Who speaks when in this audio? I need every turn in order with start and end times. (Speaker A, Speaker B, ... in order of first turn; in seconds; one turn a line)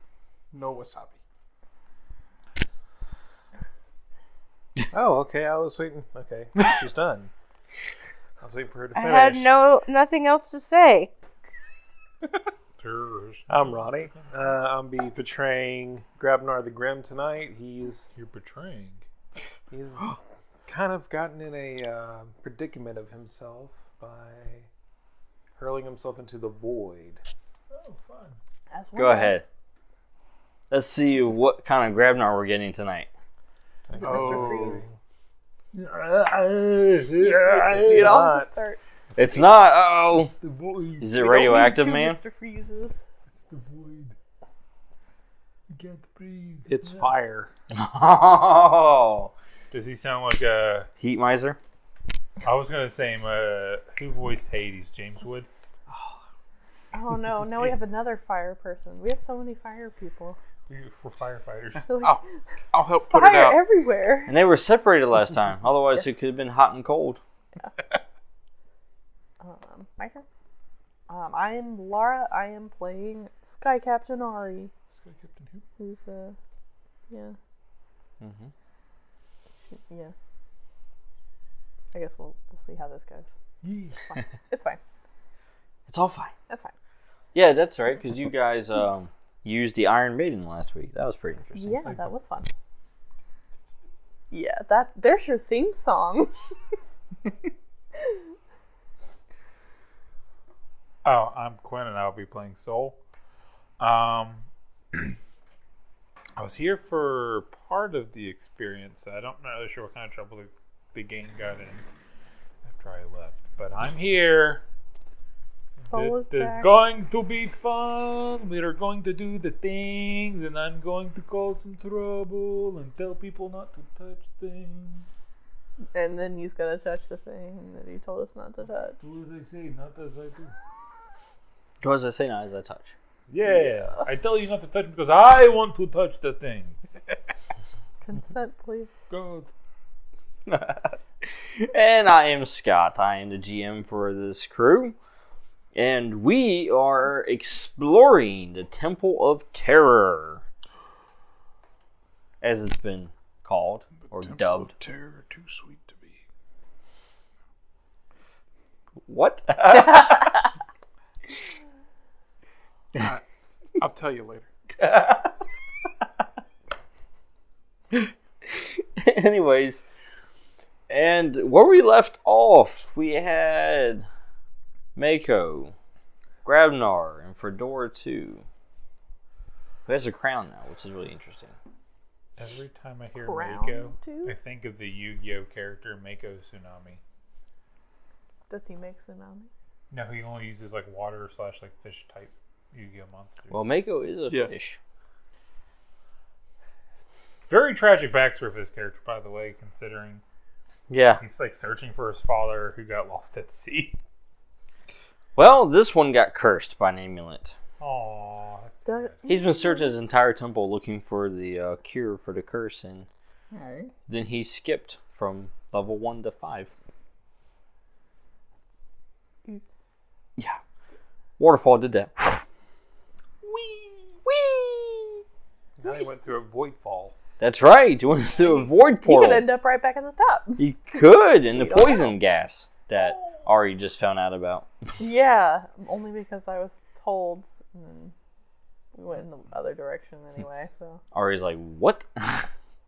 Speaker A: 0.5-1.2
Speaker B: 4.9-7.3
Speaker B: 8.4-9.6
Speaker C: 8.9-11.1
Speaker D: 12.8-14.6
Speaker B: 13.5-18.1
Speaker D: 18.1-19.0
Speaker B: 19.7-20.1
Speaker B: 20.7-24.7
Speaker B: 25.6-27.2
Speaker D: 27.7-28.4
Speaker E: 28.7-29.4
Speaker F: 28.9-29.4
Speaker F: 30.7-33.1
Speaker B: 33.9-34.9
Speaker E: 33.9-34.8
Speaker A: 34.0-34.8
Speaker D: 35.7-38.1
Speaker B: 37.2-38.7
Speaker E: 37.8-38.8
Speaker F: 39.1-40.3
Speaker D: 40.3-41.1
Speaker F: 41.0-42.2
Speaker E: 41.1-43.0
Speaker D: 43.5-44.1
Speaker D: 45.7-47.1
Speaker B: 46.6-47.5
Speaker F: 47.7-49.3
Speaker D: 49.7-50.9
Speaker F: 51.0-51.6
Speaker D: 52.4-55.5
Speaker F: 55.9-56.2
Speaker E: 56.9-60.4
Speaker D: 60.7-61.9
Speaker E: 61.9-62.3
Speaker A: 62.0-63.6
Speaker E: 62.9-64.3
Speaker F: 64.3-67.2
Speaker E: 69.4-70.2
Speaker E: 71.1-74.7
Speaker D: 74.9-75.6
Speaker E: 75.8-76.3
Speaker E: 77.1-77.3
Speaker F: 78.2-78.5
Speaker E: 79.7-80.1
Speaker E: 81.9-83.3
Speaker D: 83.6-84.0
Speaker E: 84.1-84.8
Speaker F: 85.9-86.3
Speaker E: 86.5-86.7
Speaker F: 87.3-91.8
Speaker E: 91.5-92.5
Speaker D: 91.8-92.1
Speaker E: 94.3-96.3
Speaker D: 101.0-103.0
Speaker D: 103.8-105.0
Speaker D: 106.4-111.8
Speaker D: 112.7-114.6
Speaker D: 115.8-125.0
Speaker E: 115.8-116.7
Speaker E: 125.9-129.0
Speaker D: 129.0-130.5
Speaker F: 131.8-132.9
Speaker D: 133.3-136.8
Speaker E: 138.0-138.9
Speaker D: 139.1-139.5
Speaker F: 140.5-144.9
Speaker F: 145.7-150.4
Speaker F: 152.4-154.7
Speaker A: 154.0-156.2
Speaker F: 159.0-160.3
Speaker E: 159.7-160.2
Speaker A: 162.9-163.2
Speaker A: 163.8-164.5
Speaker F: 164.8-165.3
Speaker F: 167.9-169.8
Speaker F: 170.9-174.1
Speaker F: 174.9-175.7
Speaker F: 176.4-178.4
Speaker F: 179.8-181.6
Speaker D: 182.4-187.0
Speaker E: 183.2-184.3
Speaker E: 188.5-189.5
Speaker D: 189.9-193.7
Speaker F: 193.5-194.8
Speaker D: 197.5-200.2
Speaker F: 200.9-201.2
Speaker D: 201.2-204.0
Speaker F: 205.3-207.6
Speaker D: 207.8-209.2
Speaker E: 208.8-210.0
Speaker F: 209.3-213.1
Speaker F: 214.1-216.7
Speaker E: 219.4-219.8
Speaker F: 221.4-222.4
Speaker A: 224.3-224.9
Speaker B: 225.8-227.1
Speaker F: 227.4-229.5
Speaker E: 228.3-230.6
Speaker F: 230.6-234.7
Speaker E: 231.5-232.1
Speaker E: 235.0-238.1
Speaker E: 238.9-241.0
Speaker F: 241.1-242.5